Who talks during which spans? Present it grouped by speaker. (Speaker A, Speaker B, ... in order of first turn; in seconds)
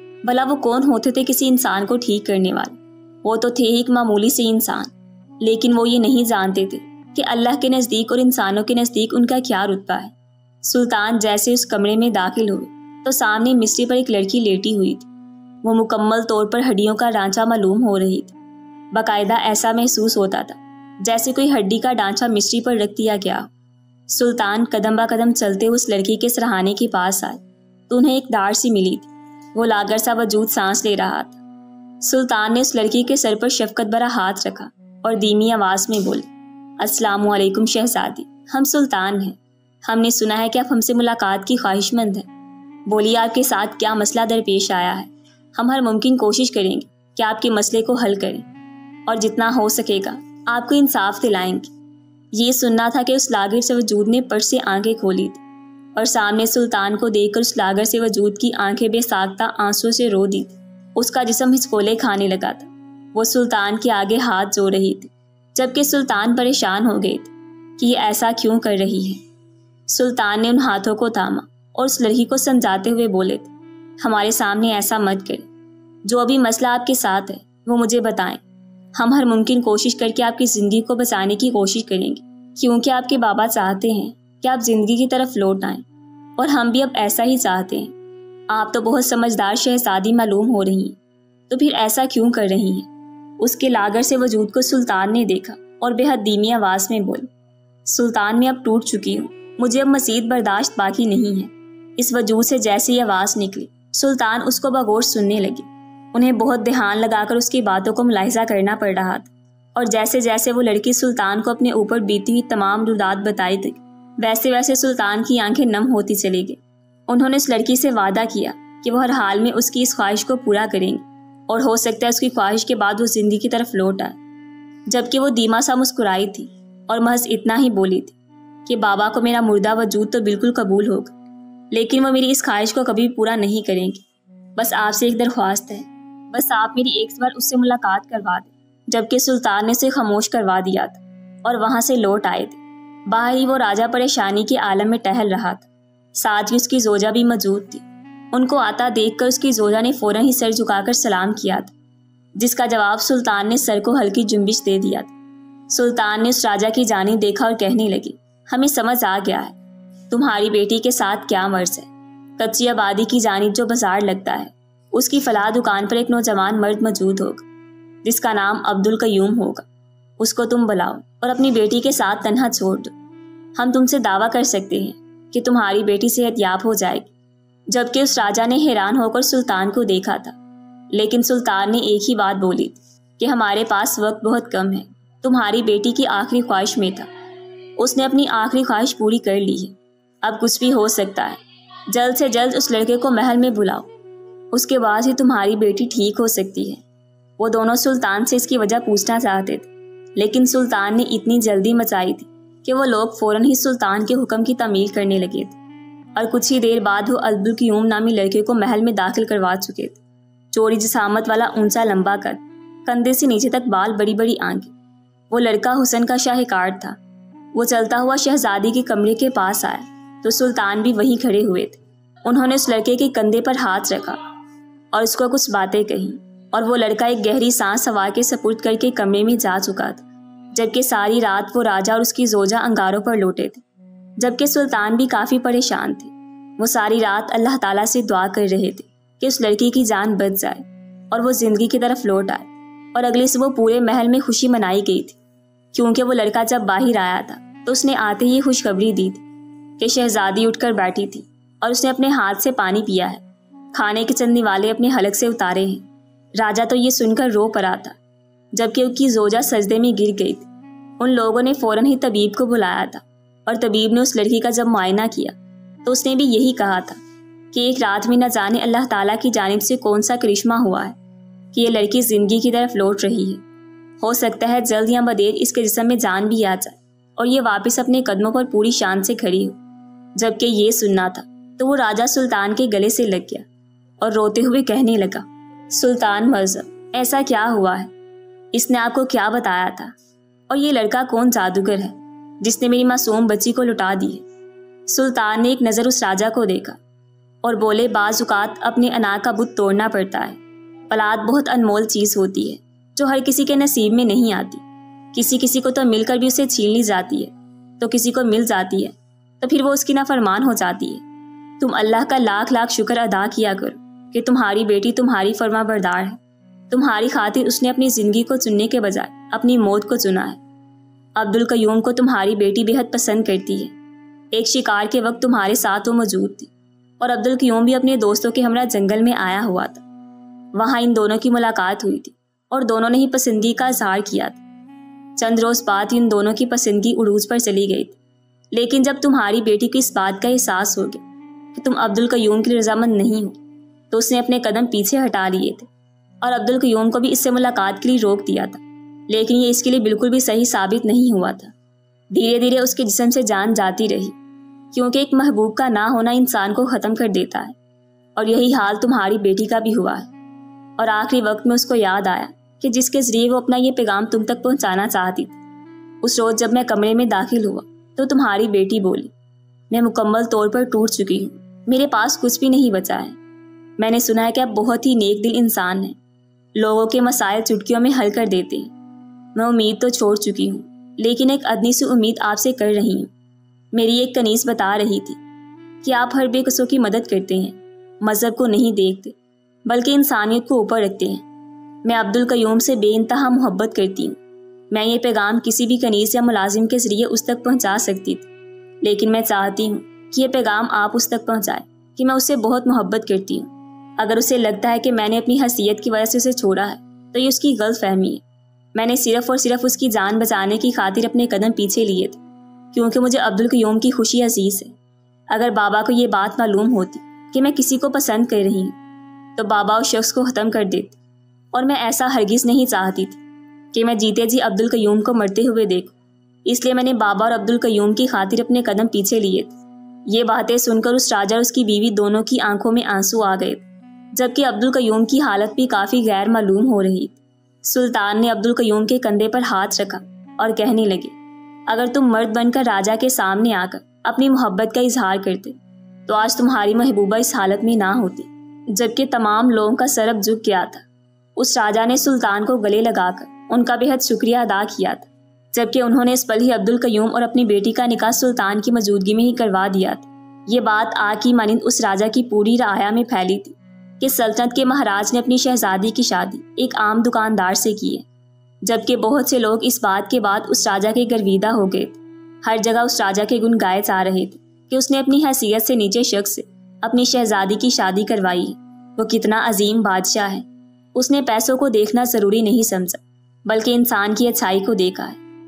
Speaker A: 0.2-15.1, 15.6-18.3, 18.9-23.5, 24.1-31.4, 32.0-36.3, 36.8-42.3, 42.9-48.4, 49.1-51.7, 52.3-55.4, 56.0-69.2, 69.9-75.5, 76.0-78.4, 79.0-85.8, 86.4-87.9, 88.5-91.0, 91.5-92.9, 93.4-97.3, 97.9-124.2, 124.9-131.1, 131.7-134.0, 134.6-151.7, 152.4-155.1, 155.7-159.5, 160.1-167.4, 168.0-169.6, 170.2-172.9, 173.6-177.1, 177.7-180.3, 180.9-187.1, 187.8-191.4, 191.9-193.9, 194.5-196.8, 197.4-205.6, 206.2-210.0, 210.5-214.7, 215.3-217.0, 217.5-224.2, 224.9-233.6, 234.2-245.2, 245.7-249.2, 249.8-253.2, 253.7-255.8, 256.4-257.9, 258.5-260.5, 261.0-267.0, 267.5-270.9, 271.5-273.4, 274.0-279.6, 280.2-283.4, 284.0-287.9, 288.5-289.9, 290.5-294.2, 294.9-296.8, 297.4-300.4, 300.9-311.0, 311.6-316.2, 316.7-320.4, 321.1-323.7, 324.3-329.8, 330.5-334.4, 335.2-338.0, 338.5-341.0, 341.5-343.4, 343.9-345.7, 346.2-351.5, 352.1-354.1, 354.7-357.5, 358.1-360.1, 360.8-365.4, 366.0-369.1, 369.7-373.2, 373.8-376.0, 376.6-378.7, 379.3-383.1, 383.7-385.2, 385.8-391.2, 391.8-394.1, 394.7-398.3, 398.8-408.2, 408.7-412.2, 412.7-414.7, 415.3-418.8, 419.4-421.0, 421.5-423.2, 423.7-425.9, 426.4-429.6, 430.1-441.1, 441.7-450.8, 451.4-468.1, 468.6-485.2